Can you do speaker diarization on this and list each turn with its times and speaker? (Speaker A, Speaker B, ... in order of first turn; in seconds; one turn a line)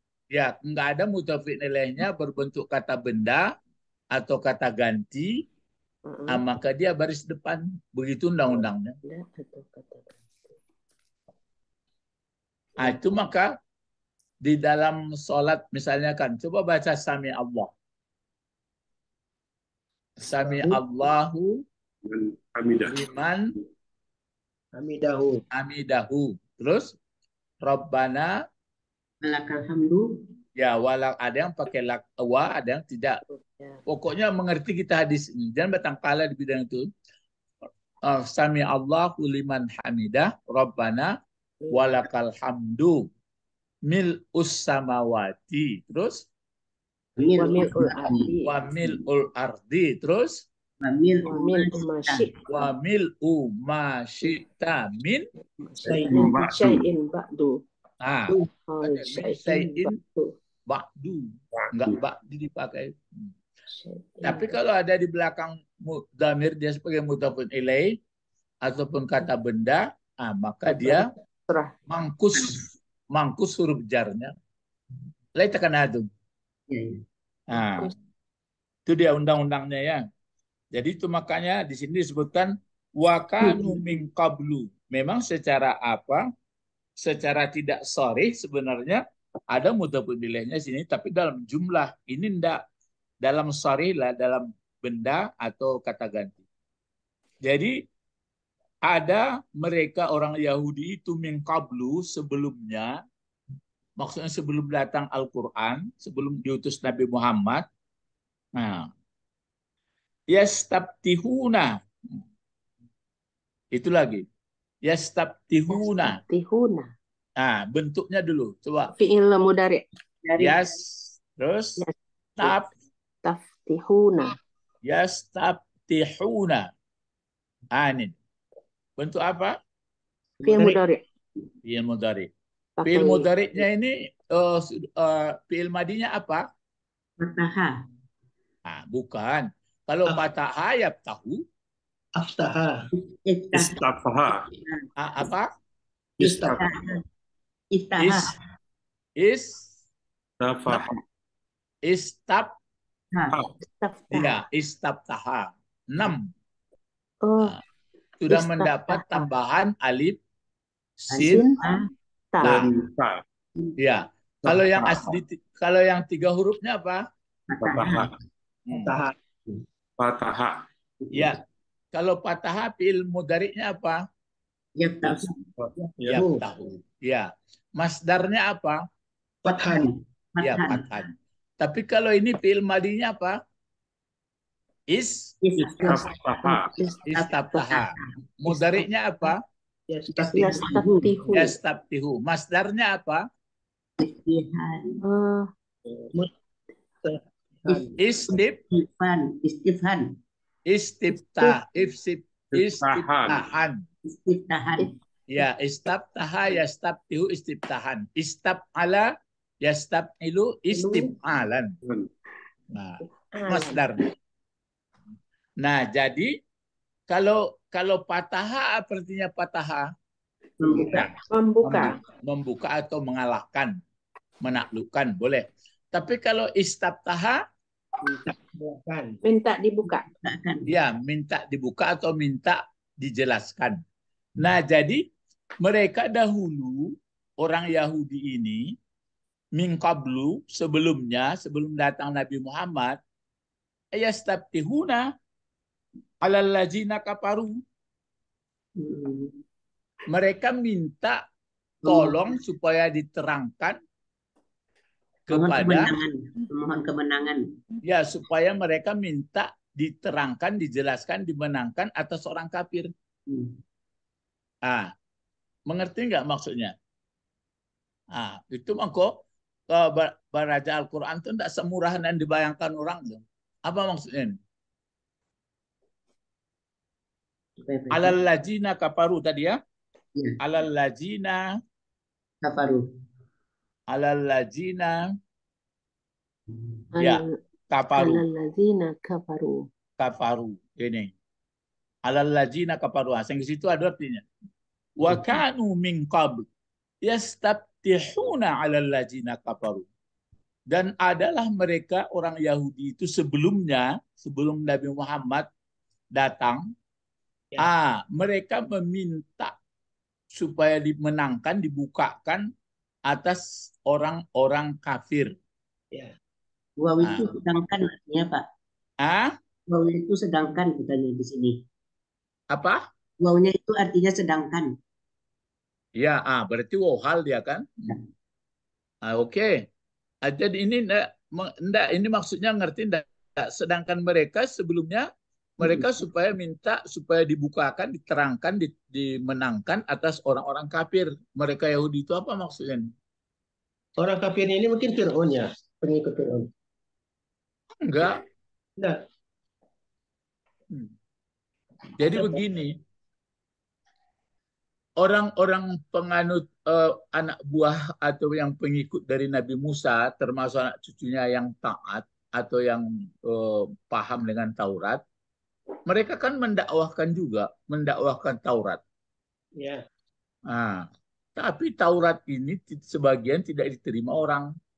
Speaker A: 0.3-3.5
Speaker A: 4.2-5.4
Speaker B: 6.1-6.4
Speaker A: 6.3-9.0
Speaker B: 9.1-10.5
Speaker A: 12.8-13.5
Speaker A: 14.4-17.7
Speaker A: 20.2-21.6
Speaker C: 22.1-23.1
Speaker A: 22.8-23.5
Speaker D: 24.8-25.4
Speaker A: 25.5-26.9
Speaker A: 27.6-28.3
Speaker E: 29.2-30.2
Speaker A: 30.6-33.2
Speaker B: 33.2-33.8
Speaker A: 33.9-36.9
Speaker A: 38.1-41.1
Speaker A: 41.7-43.1
Speaker A: 43.9-46.3
Speaker E: 47.2-49.0
Speaker B: 47.4-48.5
Speaker A: 48.5-50.4
Speaker E: 50.8-52.3
Speaker B: 51.3-52.7
Speaker A: 52.5-55.3
Speaker B: 55.6-57.6
Speaker D: 55.9-56.3
Speaker E: 55.9-56.3
Speaker C: 56.1-56.8
Speaker A: 58.0-60.0
Speaker B: 58.7-60.3
Speaker A: 60.7-63.3
Speaker C: 61.6-62.0
Speaker B: 63.7-64.6
Speaker A: 64.2-68.0
Speaker A: 68.6-71.1
Speaker B: 70.7-71.7
Speaker A: 71.9-74.3
Speaker A: 75.4-76.1
Speaker E: 76.7-77.0
Speaker A: 77.5-77.9
Speaker B: 77.5-77.9
Speaker A: 78.9-80.0
Speaker A: 80.7-86.2
Speaker A: 87.0-89.0
Speaker A: 89.5-92.6
Speaker A: 93.2-96.4
Speaker A: 97.5-97.8
Speaker A: 98.9-102.9
Speaker A: 104.0-107.7
Speaker A: 108.6-108.9
Speaker A: 110.3-112.2
Speaker A: 113.7-114.2
Speaker A: 114.8-116.2
Speaker B: 115.7-116.9
Speaker A: 117.4-118.9
Speaker B: 118.9-119.8
Speaker E: 120.2-120.7
Speaker A: 120.4-121.8
Speaker B: 121.8-122.7
Speaker A: 122.4-122.7
Speaker B: 123.2-124.4
Speaker A: 124.8-126.7
Speaker A: 127.7-128.2
Speaker A: 129.0-129.6
Speaker D: 130.4-130.8
Speaker B: 130.4-131.0
Speaker A: 131.7-132.3
Speaker B: 132.8-133.7
Speaker A: 132.8-136.4
Speaker E: 137.2-137.7
Speaker A: 138.7-141.4
Speaker D: 142.2-142.8
Speaker E: 143.1-143.8
Speaker C: 143.5-144.5
Speaker E: 144.5-144.8
Speaker A: 145.0-145.5
Speaker D: 146.2-146.6
Speaker C: 146.2-146.7
Speaker E: 146.6-147.0
Speaker E: 147.7-148.3
Speaker A: 148.0-148.3
Speaker A: 149.2-149.7
Speaker C: 150.4-151.0
Speaker A: 151.8-152.5
Speaker B: 153.6-154.4
Speaker A: 154.1-156.3
Speaker B: 157.2-157.6
Speaker A: 158.2-160.2
Speaker B: 158.3-159.3
Speaker A: 161.0-161.6
Speaker E: 161.1-161.9
Speaker B: 161.2-161.7
Speaker B: 162.3-162.7
Speaker A: 162.4-162.7
Speaker C: 162.4-163.2
Speaker A: 163.8-167.0
Speaker C: 164.4-165.2
Speaker E: 167.5-168.1
Speaker C: 167.6-168.2
Speaker A: 168.7-168.9
Speaker D: 168.7-169.1
Speaker C: 170.0-170.6
Speaker A: 171.1-171.4
Speaker A: 171.9-174.0
Speaker E: 174.8-175.4
Speaker C: 175.6-176.2
Speaker A: 176.1-178.8
Speaker D: 176.1-176.4
Speaker D: 179.4-179.9
Speaker E: 179.7-180.9
Speaker A: 180.4-183.4
Speaker A: 184.9-185.3
Speaker E: 185.4-186.1
Speaker C: 185.6-186.8
Speaker B: 185.8-187.6
Speaker E: 187.0-188.1
Speaker A: 187.1-189.4
Speaker D: 189.9-190.9
Speaker E: 190.1-191.2
Speaker B: 190.3-191.6
Speaker A: 191.3-193.2
Speaker E: 194.0-195.0
Speaker B: 195.0-195.5
Speaker D: 197.0-197.9
Speaker E: 197.7-200.1
Speaker A: 198.0-198.6
Speaker A: 200.7-203.8
Speaker C: 202.5-203.5
Speaker E: 204.1-204.9
Speaker A: 205.3-209.1
Speaker A: 209.6-211.7
Speaker B: 210.7-211.1
Speaker C: 211.8-212.1
Speaker A: 212.7-214.1
Speaker B: 213.3-213.8
Speaker A: 215.6-216.3
Speaker A: 217.1-219.9
Speaker E: 220.6-221.1
Speaker B: 220.7-222.0
Speaker A: 220.7-223.8
Speaker A: 224.4-227.4
Speaker D: 228.3-229.2
Speaker B: 229.2-230.1
Speaker E: 229.9-230.7
Speaker A: 230.7-233.8
Speaker A: 234.4-235.0
Speaker A: 235.6-238.7
Speaker A: 239.6-243.0
Speaker A: 243.9-245.1
Speaker A: 246.2-247.6
Speaker B: 248.8-249.4
Speaker A: 250.1-251.2
Speaker E: 251.8-252.3
Speaker A: 251.8-253.8
Speaker A: 255.3-255.9
Speaker E: 255.3-257.4
Speaker A: 257.8-262.9
Speaker E: 263.3-263.6
Speaker A: 264.7-264.9
Speaker A: 265.7-266.7
Speaker A: 268.1-274.4
Speaker E: 277.6-278.1
Speaker A: 277.9-279.6
Speaker A: 280.4-281.4
Speaker E: 282.4-282.8
Speaker A: 283.9-285.0
Speaker B: 286.9-287.3
Speaker A: 287.0-288.2
Speaker B: 288.0-289.7
Speaker A: 290.0-291.1
Speaker A: 292.1-294.2
Speaker A: 295.0-296.4
Speaker A: 297.0-299.9
Speaker A: 300.7-305.5
Speaker A: 306.1-306.6
Speaker A: 307.6-309.6
Speaker A: 310.4-312.4
Speaker A: 313.1-315.4
Speaker E: 316.8-318.5
Speaker A: 317.0-317.3
Speaker A: 319.0-319.3
Speaker E: 319.7-321.6
Speaker A: 322.5-322.8
Speaker E: 323.2-324.7
Speaker A: 326.0-327.9
Speaker A: 329.1-329.7
Speaker A: 330.2-335.1
Speaker A: 335.6-342.9
Speaker D: 344.0-346.5
Speaker A: 347.8-348.2
Speaker A: 352.0-352.8
Speaker A: 355.0-365.0
Speaker A: 365.9-368.8
Speaker A: 370.5-374.5